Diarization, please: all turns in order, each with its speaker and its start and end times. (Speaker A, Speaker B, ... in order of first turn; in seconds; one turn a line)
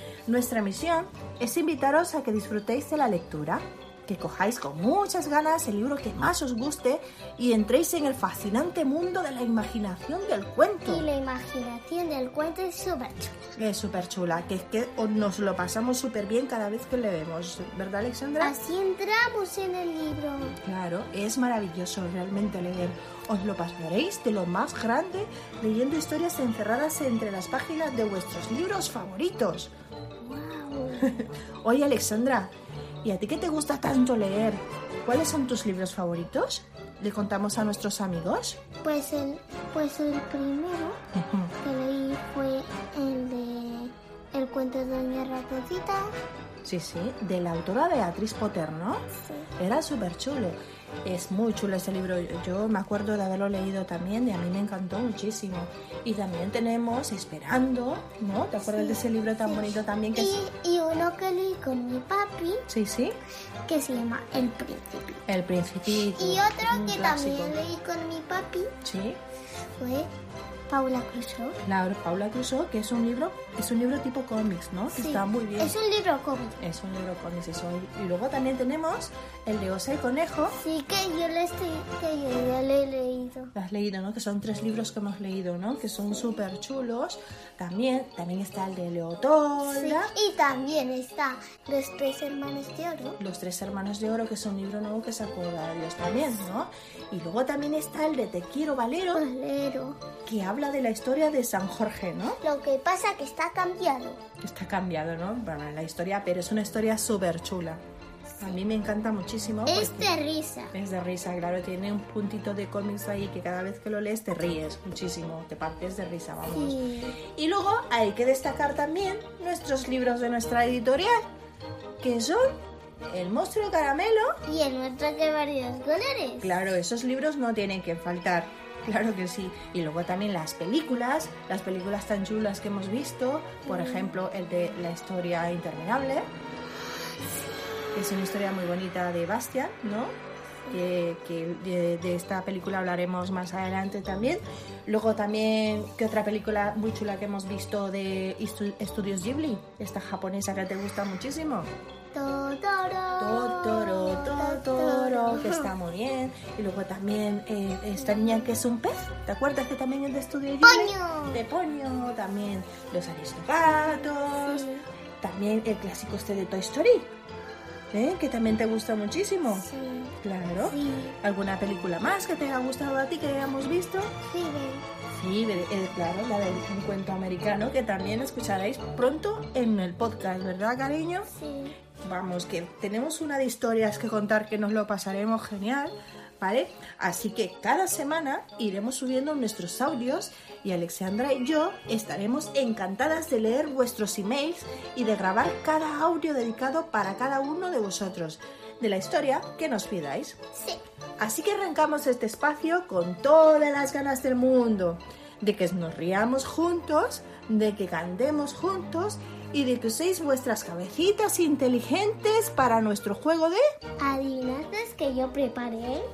Speaker A: 0.3-11.1
Speaker B: 10.8-13.4
Speaker A: 13.6-18.5
Speaker B: 18.4-20.6
Speaker A: 20.6-29.7
Speaker B: 30.2-31.2
Speaker A: 31.0-32.5
Speaker A: 33.0-38.6
Speaker B: 38.8-41.0
Speaker A: 41.1-41.5
Speaker B: 41.6-46.1
Speaker A: 46.6-60.4
Speaker B: 49.2-49.5
Speaker B: 58.7-62.6
Speaker A: 62.7-63.2
Speaker B: 63.7-65.2
Speaker A: 65.3-67.6
Speaker B: 66.0-68.7
Speaker A: 68.8-69.2
Speaker B: 69.8-70.1
Speaker B: 70.7-71.6
Speaker A: 71.6-75.8
Speaker B: 74.9-76.6
Speaker A: 76.6-80.6
Speaker B: 80.6-83.5
Speaker A: 83.5-90.1
Speaker B: 89.6-93.2
Speaker A: 93.2-99.3
Speaker B: 99.1-100.0
Speaker A: 100.3-102.4
Speaker B: 102.4-104.2
Speaker A: 104.4-107.8
Speaker A: 108.4-110.1
Speaker B: 109.7-110.8
Speaker A: 110.7-121.3
Speaker B: 116.5-117.2
Speaker A: 122.0-122.6
Speaker A: 123.1-124.4
Speaker B: 124.5-126.6
Speaker A: 126.4-136.3
Speaker B: 133.7-134.1
Speaker A: 137.9-140.2
Speaker A: 140.7-151.7
Speaker B: 152.1-155.7
Speaker A: 153.2-164.7
Speaker B: 160.6-161.4
Speaker B: 163.7-164.8
Speaker A: 165.2-167.1
Speaker A: 167.9-169.7
Speaker B: 169.5-170.2
Speaker A: 170.2-174.1
Speaker B: 170.7-171.2
Speaker B: 174.3-174.9
Speaker A: 175.1-181.3
Speaker B: 181.3-181.8
Speaker A: 182.0-200.4
Speaker A: 201.2-213.6
Speaker B: 214.0-216.1